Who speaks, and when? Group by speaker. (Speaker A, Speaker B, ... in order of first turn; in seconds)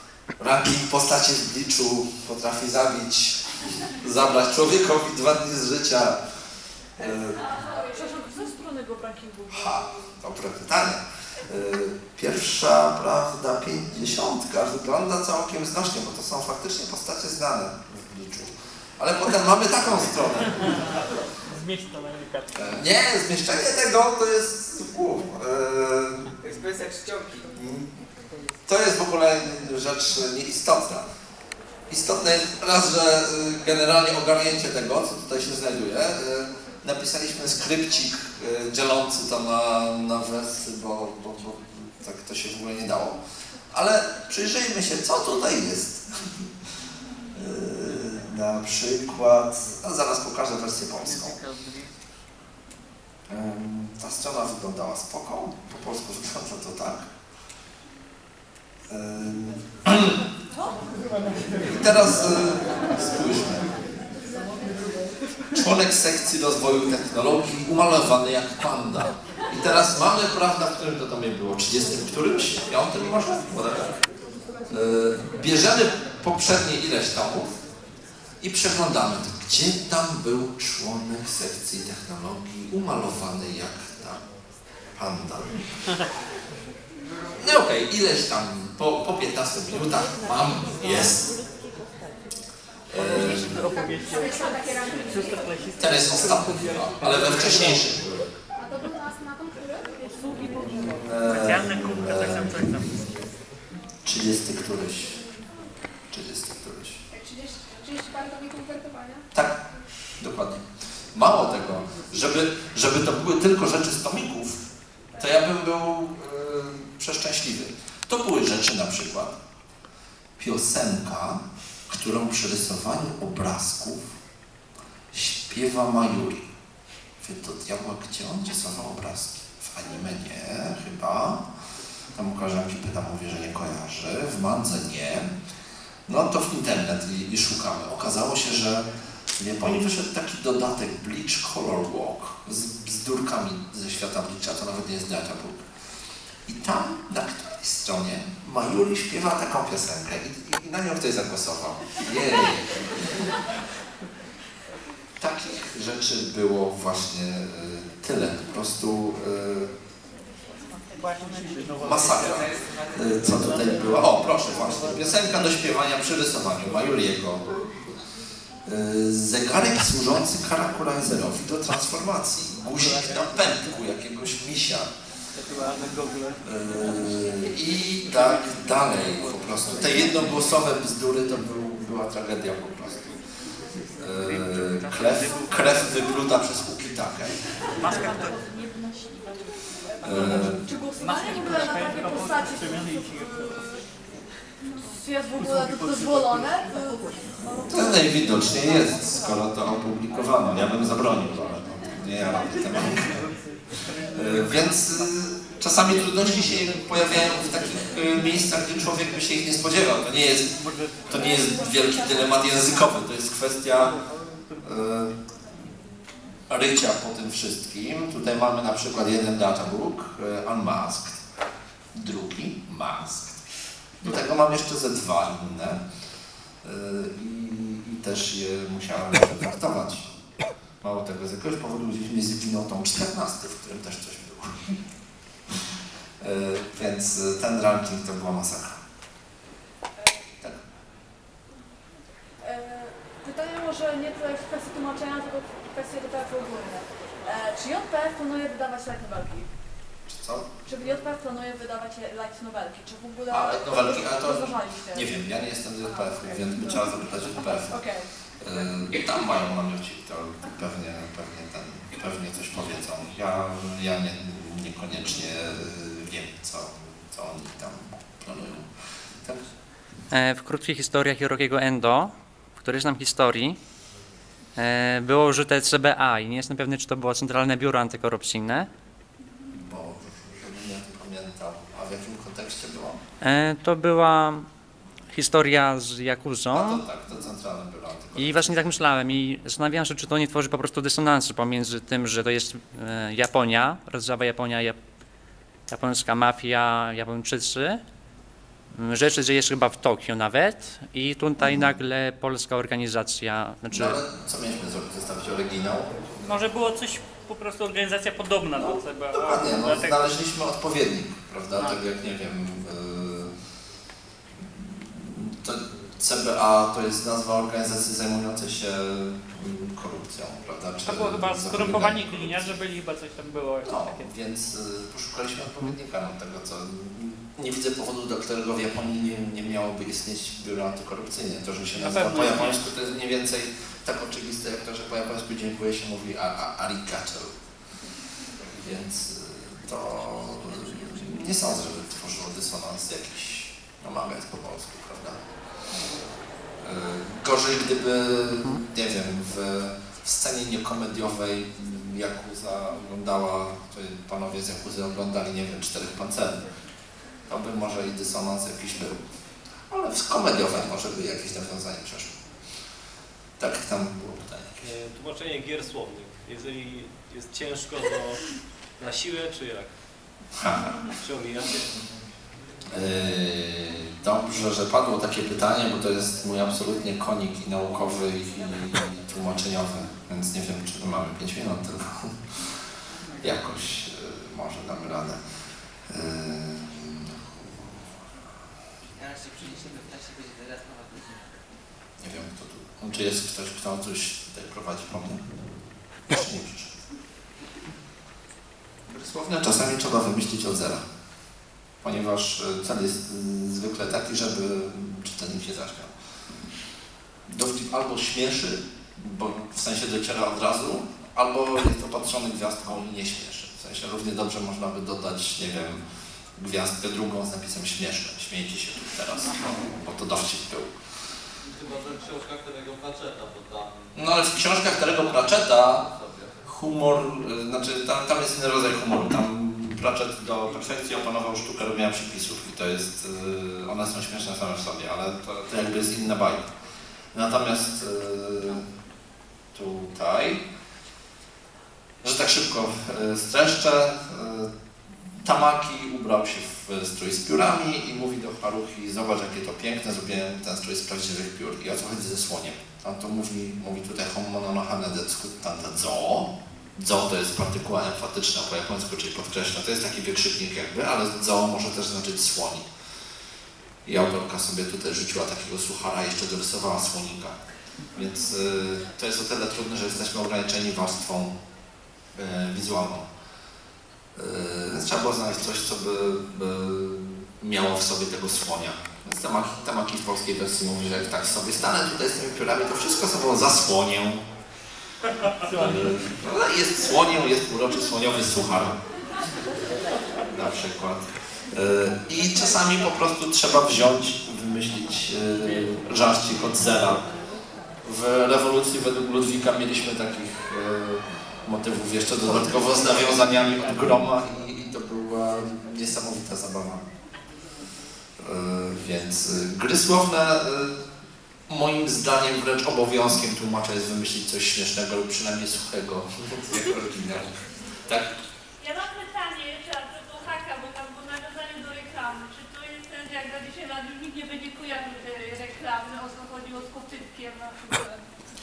Speaker A: 0.4-3.5, 4.0-6.2, 7.0-7.5, 9.5-21.0, 22.6-26.3, 27.6-27.9, 28.7-31.1, 31.9-43.2, 43.7-46.5, 47.3-51.4, 53.3-57.1, 58.9-60.2, 61.6-63.7, 65.5-74.0, 74.7-77.5, 78.4-84.2, 85.0-85.6, 87.4-91.3, 92.9-93.6, 95.8-98.2, 100.5-102.8, 104.0-105.2, 106.1-107.0, 109.3-109.6, 110.2-114.6, 115.2-119.4, 120.4-124.1, 125.1-126.5, 127.2-131.4, 132.2-135.3, 136.1-145.7, 146.5-153.2, 155.2-159.7, 161.8-167.5, 168.7-174.9, 176.4-183.2, 184.0-187.4, 190.0-190.6, 197.7-214.0, 214.6-215.1, 216.5-221.2, 221.9-223.4, 224.0-225.8, 226.6-230.1, 230.8-234.7, 236.2-238.8, 250.1-250.5, 253.3-257.8, 258.4-268.7, 279.5-283.0, 286.5-288.7, 301.4-301.8, 303.7-306.0, 308.6-313.3, 314.6-322.6, 323.6-337.4, 338.5-345.2, 346.6-356.4, 357.3-359.0, 359.7-362.2, 363.4-364.7, 370.4-370.8, 372.7-382.1, 383.2-385.2, 385.9-387.8, 392.0-395.3, 396.1-396.7, 398.9-400.8, 401.8-405.9, 407.3-415.8, 416.4-420.8, 424.0-425.9, 426.4-436.5, 437.1-438.6, 439.5-440.4, 442.0-444.5, 445.2-462.7, 463.9-467.4, 467.9-471.4, 472.1-473.1, 474.1-484.2, 485.5-488.8, 490.3-497.0, 497.8-506.9, 508.2-510.9, 511.5-517.4, 517.9-518.1
Speaker B: 7.6-10.1, 189.9-193.8, 194.8-198.9, 240.0-240.3, 242.4-249.5, 250.7-255.1, 256.1-258.7
Speaker C: 21.5-22.5, 51.0-51.9, 93.0-94.2, 95.3-97.8, 101.3-102.9, 160.9-162.5, 175.4-176.4, 179.3-180.3, 184.2-185.8, 187.8-188.3, 191.0-193.1, 210.6-211.2, 306.2-310.0, 320.9-324.1, 331.8-332.6, 485.4-486.1, 502.3-504.0
Speaker D: 26.4-27.5, 87.1-87.3, 162.0-163.9, 388.9-391.3
Speaker E: 93.1-95.6, 98.6-100.3, 107.1-109.3, 188.2-189.2
Speaker F: 270.1-273.6, 274.6-278.7, 283.2-284.5, 285.1-286.8, 288.2-294.8, 295.7-297.8, 298.7-304.0
Speaker G: 364.6-369.7, 371.0-371.8
Speaker H: 421.4-426.5
Speaker I: 518.6-528.0